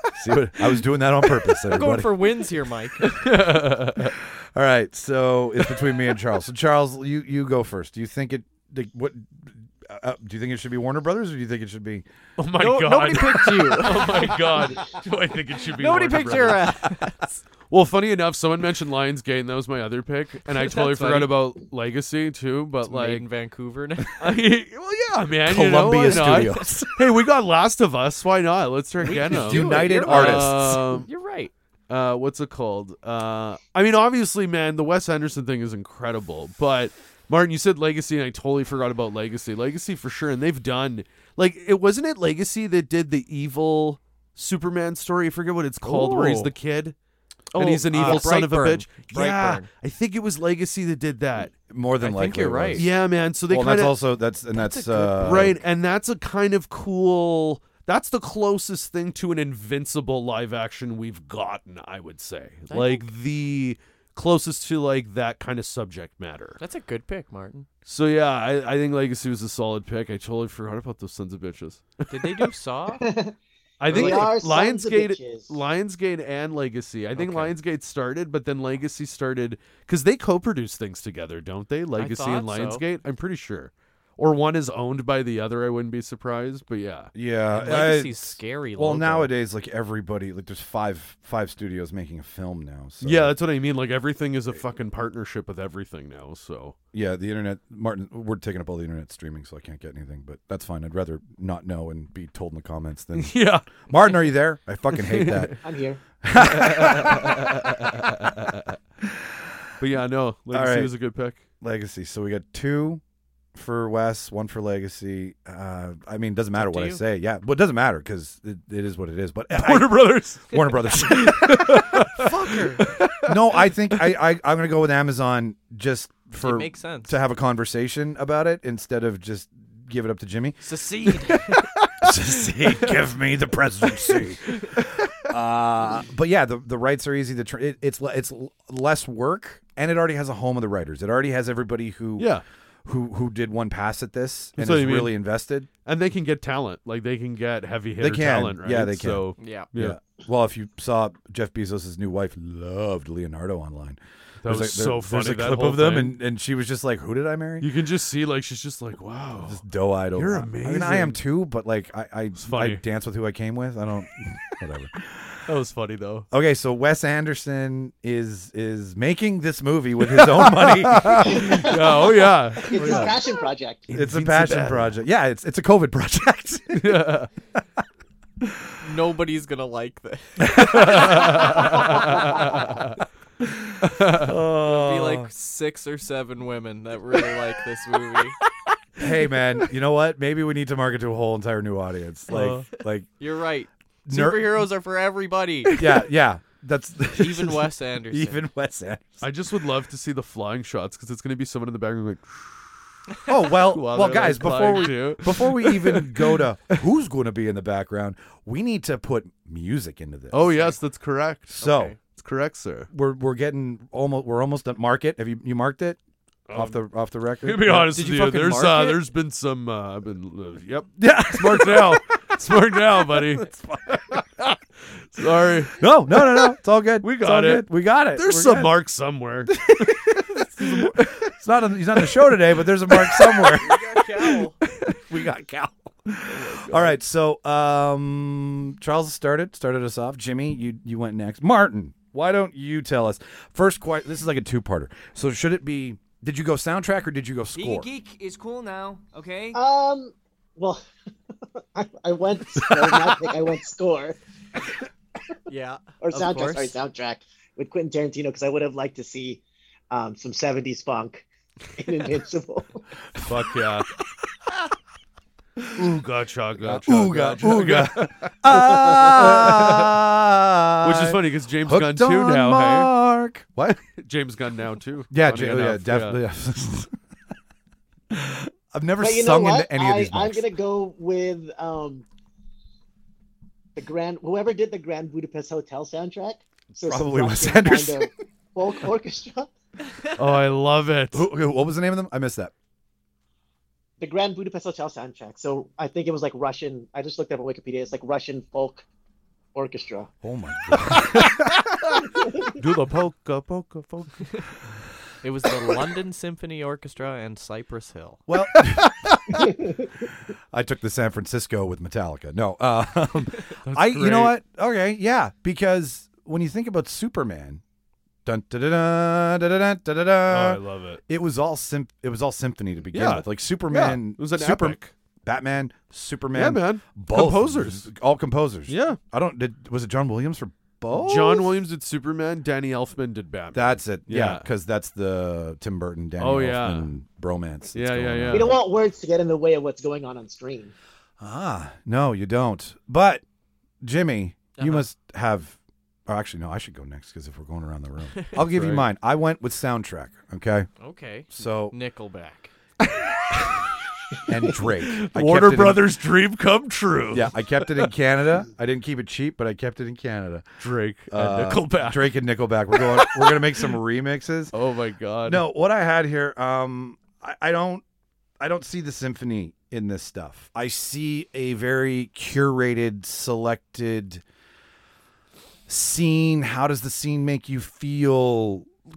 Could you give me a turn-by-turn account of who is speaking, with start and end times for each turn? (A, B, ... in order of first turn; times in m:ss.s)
0:00.1-0:02.2 A
0:01.6-0:03.2 B
0:03.0-0:04.1 C
0:04.0-0:12.1 A
0:12.4-0:16.8 C
0:12.6-0:14.9 B
0:15.8-0:17.4 B
0:17.7-0:23.3 C
0:20.5-0:21.4 B
0:22.8-0:24.2 B
0:24.2-0:31.1 C
0:25.4-0:27.0 A
0:26.1-0:26.7 B
0:29.0-0:31.5 B
0:29.1-0:30.9 A
0:31.9-0:47.0 C
0:45.8-0:46.5 B
0:47.5-0:49.7 B
0:47.6-0:51.5 C
0:48.0-0:48.3 A
0:49.1-0:49.6 A
0:51.7-0:52.9 A
0:52.0-0:52.8 B
0:52.8-0:54.0 C
0:53.5-0:55.6 A
0:54.5-0:55.3 B
0:55.0-1:06.6 C
1:02.7-1:03.1 B
1:06.6-1:07.7 B
1:07.9-1:12.5 C
1:12.1-1:13.0 B
1:13.0-1:13.4 D
1:13.8-1:27.1 C
1:13.9-1:15.6 D
1:13.9-1:14.3 B
1:17.2-1:17.5 B
1:22.0-1:22.8 B
1:27.1-1:33.4 A
1:27.5-1:29.3 B
1:33.0-1:36.8 C
1:36.9-1:45.6 A
1:43.2-1:43.9 C
1:44.9-1:45.6 C
1:45.6-1:46.0 D
1:46.2-1:49.4 A
1:46.4-1:48.8 C
1:49.8-1:51.4 C
1:50.5-1:50.9 A
1:51.6-1:53.0 A
1:53.6-2:02.1 A
1:56.6-1:57.0 B
1:59.5-2:04.2 C
2:02.1-2:02.8 B
2:03.2-2:10.6 A
2:06.4-2:07.2 B
2:10.6-2:11.7 B
2:12.0-2:22.3 A
2:22.2-2:22.4 C
2:22.8-2:25.7 A
2:24.6-2:25.2 C
2:25.9-2:30.0 C
2:28.0-2:37.7 A
2:29.4-2:29.7 B
2:34.4-2:36.2 C
2:37.6-2:39.6 C
2:39.4-2:45.4 A
2:40.1-2:41.2 C
2:42.4-2:42.8 C
2:45.5-2:46.3 C
2:46.3-2:51.8 A
2:50.0-2:53.2 C
2:51.2-2:53.9 D
2:52.8-2:53.1 B
2:53.9-2:54.9 C
2:53.9-2:57.1 A
2:56.8-2:57.3 C
2:58.8-3:02.7 B
3:00.5-3:03.0 C
3:03.8-3:04.3 C
3:04.2-3:05.3 A
3:04.6-3:08.4 B
3:09.0-3:13.1 A
3:12.3-3:12.7 C
3:13.2-3:15.7 B
3:14.1-3:14.6 A
3:15.7-3:19.3 A
3:17.2-3:18.4 B
3:19.2-3:22.8 C
3:23.3-3:30.7 A
3:23.5-3:26.8 C
3:30.3-3:32.9 C
3:31.5-3:32.0 A
3:31.6-3:32.0 B
3:32.9-3:36.0 A
3:36.5-3:36.8 C
3:36.5-3:38.0 A
3:37.4-3:44.6 C
3:37.8-3:39.0 B
3:41.0-3:42.0 A
3:43.1-3:44.2 A
3:45.1-3:51.3 C
3:45.7-3:48.7 A
3:49.5-3:53.8 A
3:52.0-3:52.4 C
3:52.9-3:53.6 C
3:53.6-3:54.6 B
3:54.7-3:55.0 C
3:55.0-4:07.9 A
3:56.3-3:57.0 C
4:07.6-4:09.6 E
4:09.5-4:10.9 D
4:11.8-4:14.2 D
4:12.6-4:13.2 A
4:15.5-4:16.8 B
4:16.0-4:21.2 D
4:21.8-4:22.8 D
4:23.2-4:23.9 C
4:25.7-4:30.0 C
4:26.6-4:33.8 A
4:30.8-4:32.9 C
4:34.0-4:36.2 C
4:35.1-4:36.9 A
4:38.1-4:40.5 A
4:39.0-4:42.0 D
4:43.8-4:49.5 D
4:46.8-4:48.1 A
4:50.2-4:51.3 C
4:51.1-4:52.5 A
4:54.0-4:58.8 D
4:59.6-5:00.1 D
5:00.2-5:01.6 A
5:00.7-5:02.1 C
5:02.2-5:02.5 D
5:02.6-5:04.3 C
5:05.2-5:08.2 B
5:08.3-5:09.4 A
5:08.6-5:09.4 C
5:09.3-5:09.9 D
5:10.5-5:17.6 A
5:13.7-5:14.4 C
5:18.2-5:31.5 A
5:20.3-5:21.0 C
5:22.9-5:24.9 C
5:26.3-5:27.9 C
5:28.7-5:29.0 C
5:30.9-5:34.4 C
5:33.5-5:38.6 A
5:36.2-5:36.9 C
5:37.7-5:38.6 C
5:38.3-5:40.7 D
5:41.2-5:43.2 A
5:43.8-5:50.7 A
5:44.6-5:44.8 B
5:48.4-5:48.9 C
5:50.8-5:52.5 B
5:51.3-5:51.8 A
5:52.8-5:53.7 C
5:54.3-5:55.9 A
5:54.6-5:57.9 C
5:57.1-6:00.5 A
6:00.6-6:02.1 C
6:01.1-6:04.5 A
6:02.7-6:03.7 C
6:04.5-6:05.4 C
6:05.2-6:07.8 A
6:08.4-6:14.2 A
6:15.7-6:18.7 A